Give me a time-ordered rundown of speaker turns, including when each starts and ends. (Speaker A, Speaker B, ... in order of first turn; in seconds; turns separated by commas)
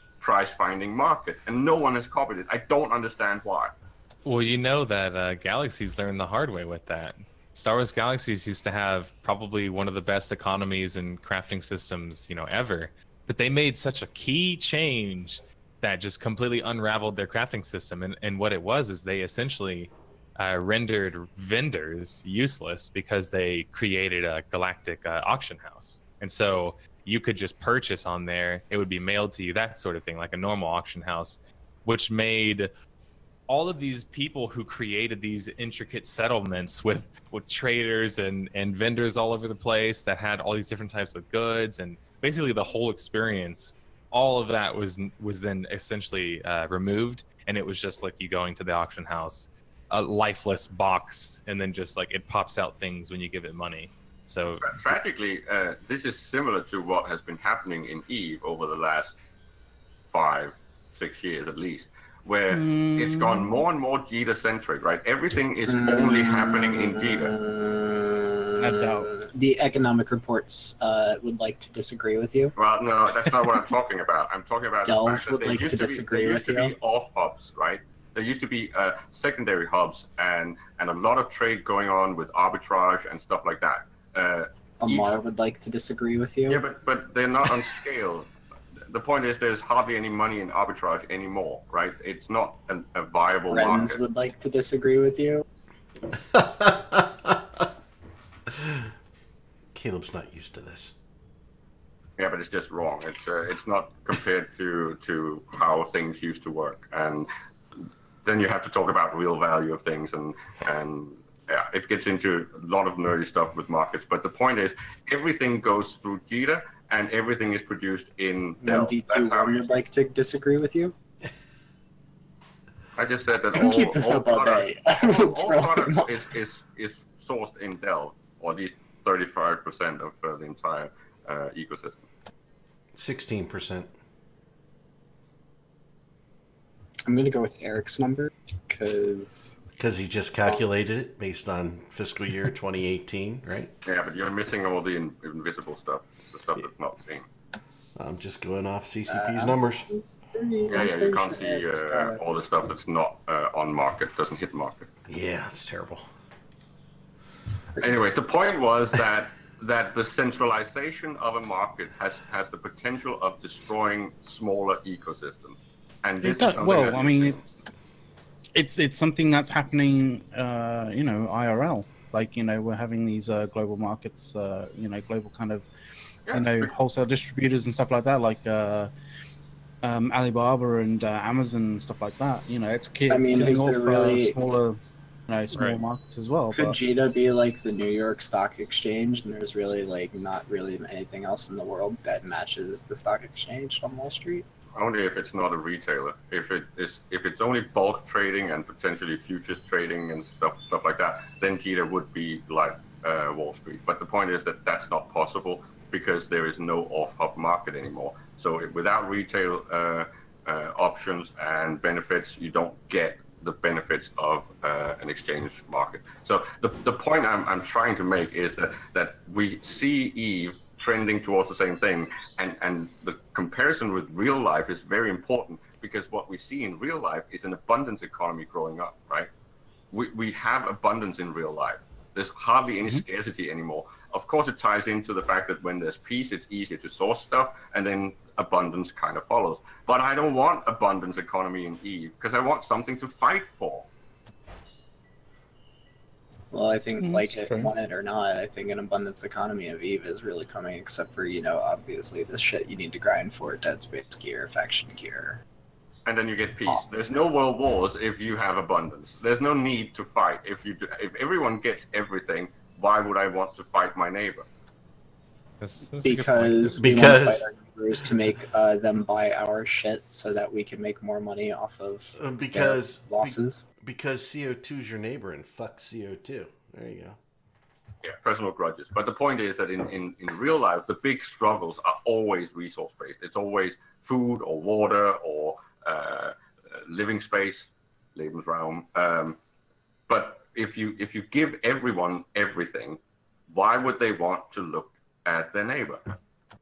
Speaker A: 0.2-3.8, Speaker B: 4.2-32.7, Speaker B: 33.5-54.8, Speaker A: 54.6-59.2, Speaker A: 60.1-67.3, Speaker C: 62.5-63.5, Speaker D: 65.7-72.5, Speaker C: 68.6-69.1, Speaker A: 72.6-85.2, Speaker D: 73.3-73.6, Speaker D: 74.8-76.7, Speaker D: 84.8-86.6, Speaker A: 86.5-88.3, Speaker A: 88.9-94.0, Speaker D: 93.5-95.5, Speaker E: 96.1-97.7, Speaker E: 98.5-98.9, Speaker E: 99.7-101.0, Speaker A: 102.2-107.3, Speaker A: 108.2-119.8, Speaker D: 118.6-121.0, Speaker A: 123.0-132.1, Speaker D: 123.5-126.2, Speaker E: 132.9-133.9, Speaker D: 137.1-139.6, Speaker E: 139.8-143.7, Speaker A: 143.8-147.3, Speaker E: 148.0-149.8, Speaker D: 149.1-152.2, Speaker A: 150.7-154.9, Speaker E: 155.1-156.1, Speaker A: 157.8-167.4, Speaker C: 166.2-167.5, Speaker C: 168.6-175.7, Speaker A: 176.3-176.7, Speaker C: 176.3-178.9, Speaker C: 179.8-186.8, Speaker D: 183.1-184.4, Speaker B: 185.5-185.8, Speaker D: 186.5-194.5, Speaker A: 194.8-229.3, Speaker A: 229.9-243.9, Speaker D: 246.5-255.4, Speaker C: 247.0-247.7, Speaker A: 256.1-264.5, Speaker B: 265.6-266.8, Speaker D: 266.0-273.6, Speaker E: 266.8-267.5, Speaker E: 272.2-277.2, Speaker A: 278.0-289.4, Speaker A: 290.1-296.1